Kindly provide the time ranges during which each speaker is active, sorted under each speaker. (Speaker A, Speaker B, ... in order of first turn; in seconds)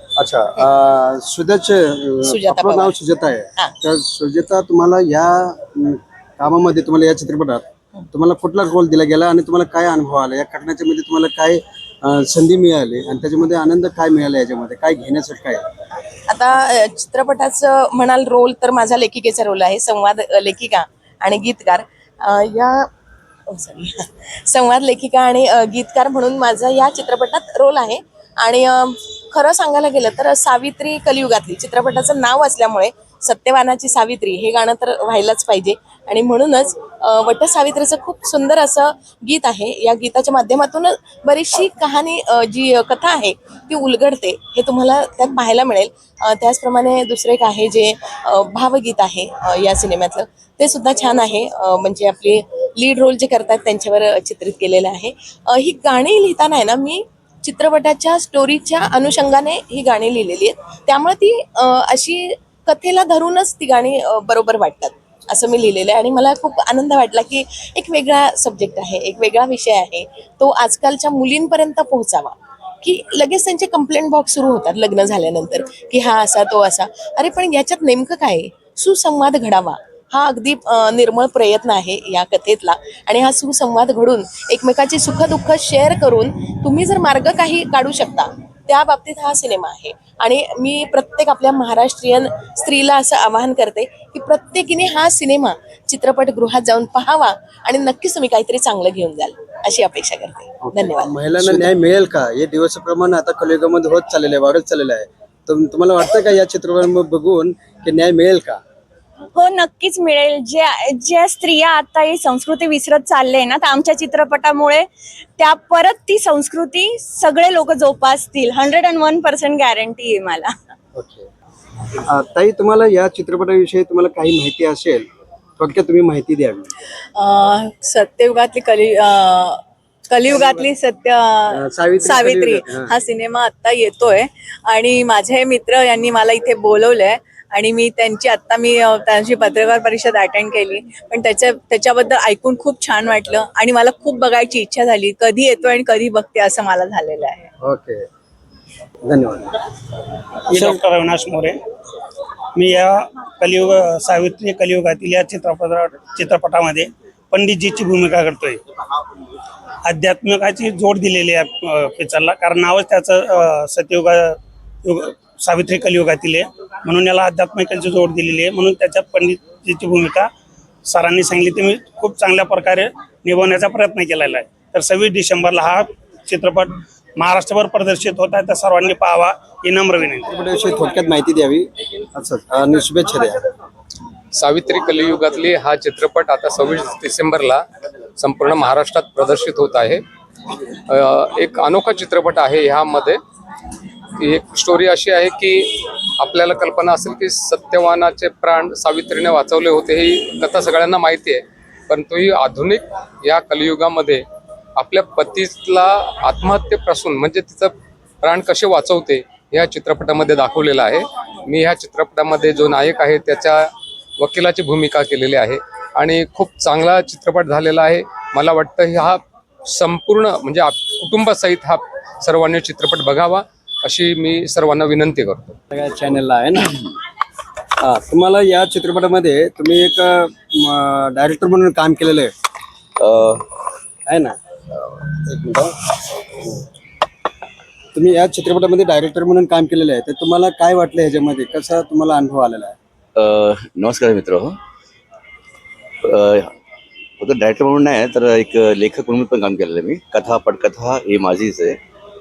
Speaker A: 0.2-15.6, 100.8-108.6, 121.0-121.3, 122.1-125.1, 125.6-126.7, 131.7-132.9, 149.1-149.5, 180.3-183.3, 225.7-226.7, 227.9-232.3, 234.1-234.3, 235.2-235.7, 237.9-242.7
Speaker B: 2.2-3.0, 16.3-22.9, 23.5-101.7
Speaker C: 109.3-114.9, 115.4-120.5
Speaker D: 127.1-147.5
Speaker E: 150.5-151.6, 152.5-158.6, 159.8-170.3, 170.9-180.4
Speaker F: 184.3-187.6, 188.2-190.0, 190.9-193.2, 194.2-204.2, 204.8-225.6
Speaker G: 233.0-233.4, 243.1-244.6, 246.0-246.5, 247.2-251.8